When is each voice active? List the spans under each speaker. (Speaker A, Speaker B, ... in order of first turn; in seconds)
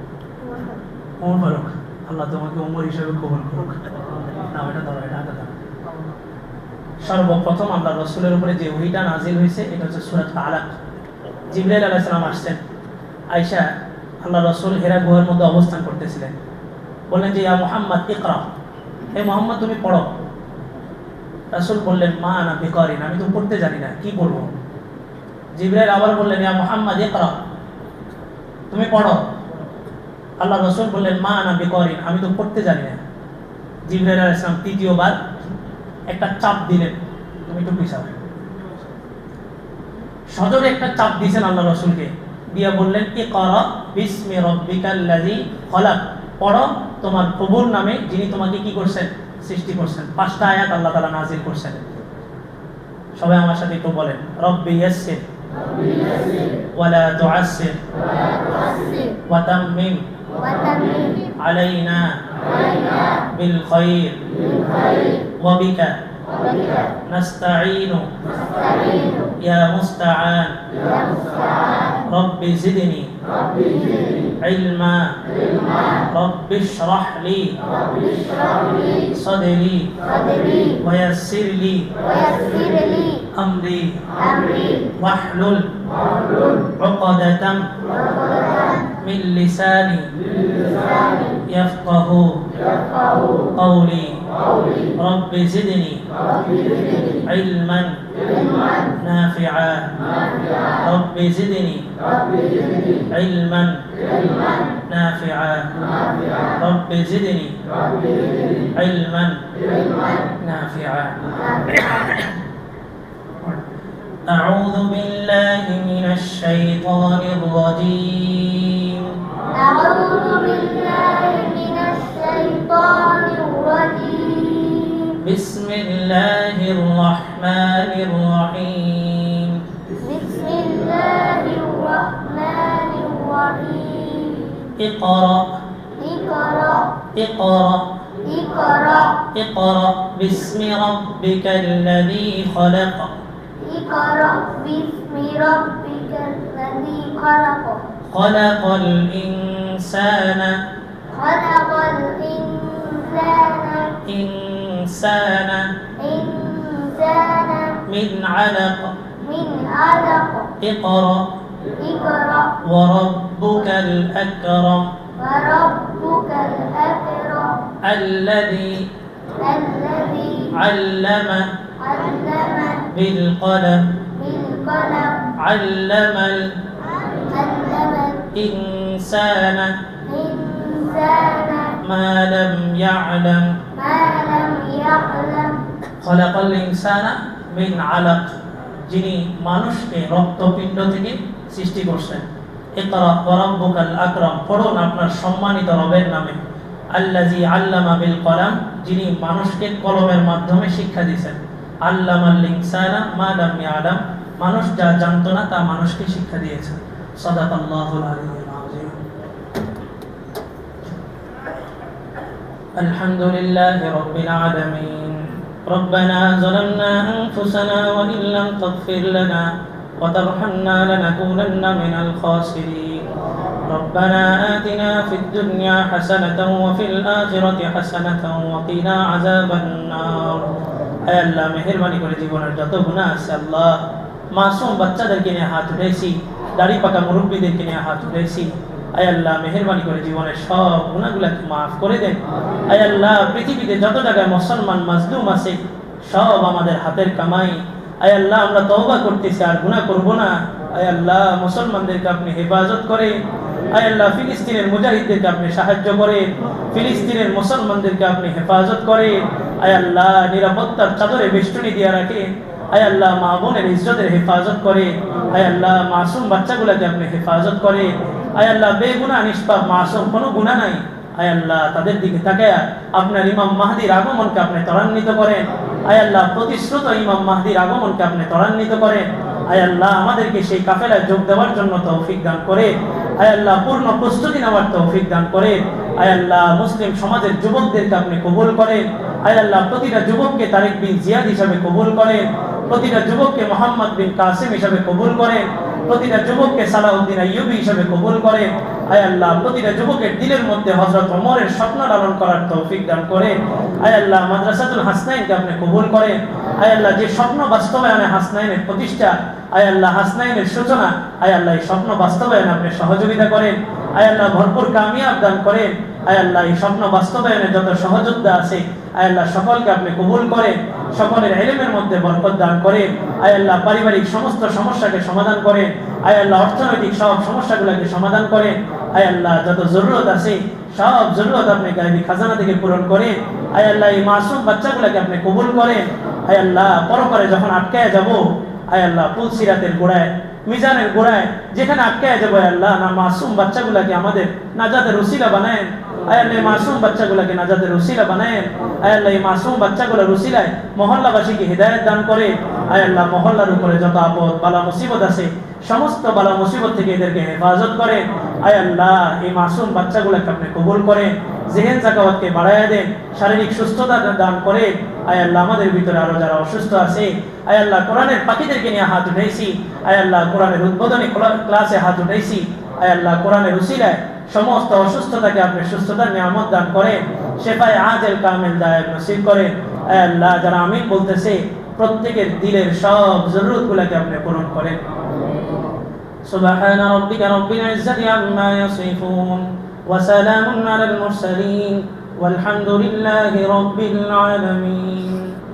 Speaker A: 0.5-0.7, 58.3-59.2, 60.4-61.3, 62.4-63.2, 64.4-65.2, 66.3-67.0, 68.3-69.3, 70.8-72.0, 73.5-74.3, 77.8-79.1, 80.0-80.8, 82.0-83.3, 84.2-84.9, 87.9-88.8, 90.5-91.4, 92.7-93.5, 96.3-97.2, 98.3-98.9, 102.3-102.7, 104.1-104.6, 109.7-110.3, 111.4-112.2, 119.5-125.2, 130.0-134.6, 136.0-136.9, 138.2-139.2, 143.6-147.8, 151.1-154.0, 156.0-157.8, 159.2-160.5, 161.8-162.6, 165.2-167.6, 169.4-170.5, 171.8-172.9, 174.2-175.3, 177.1-178.2, 180.1-181.8, 183.7-185.6
Speaker B: 1.2-5.5, 7.0-10.8, 11.5-12.6, 13.3-13.7, 14.2-16.3, 17.1-18.5, 19.1-20.1, 21.5-24.5, 25.5-27.4, 28.7-29.2, 30.4-33.0, 33.9-35.2, 36.1-38.1, 40.3-51.8, 53.2-55.2, 56.7-57.8, 59.3-60.0, 61.4-62.2, 63.3-64.2, 65.4-66.0, 67.0-68.1, 69.4-70.6, 72.0-73.1, 74.4-75.1, 76.0-77.5, 79.1-80.0, 80.8-81.9, 83.3-84.0, 85.0-85.7, 86.6-87.7, 88.9-90.1, 91.4-92.4, 93.5-94.2, 95.0-96.0, 97.2-98.0, 98.9-99.9, 100.7-101.9, 103.1-103.8, 104.9-105.8, 106.4-107.6, 108.7-109.4, 110.4-112.3, 114.2-119.1, 125.2-129.6, 134.8-135.4, 137.1-137.8, 139.2-143.1, 148.1-150.6, 154.0-155.7, 157.9-158.9, 160.6-161.2, 162.6-164.9, 167.8-168.8, 170.5-171.5, 172.9-173.9, 175.4-176.5, 178.3-179.7, 181.8-183.5, 186.0-188.4, 188.9-192.2, 192.8-196.4, 196.9-209.0, 212.8-219.5, 220.0-223.0, 223.7-230.4, 231.1-233.8, 234.3-253.2, 253.7-384.8, 386.2-395.3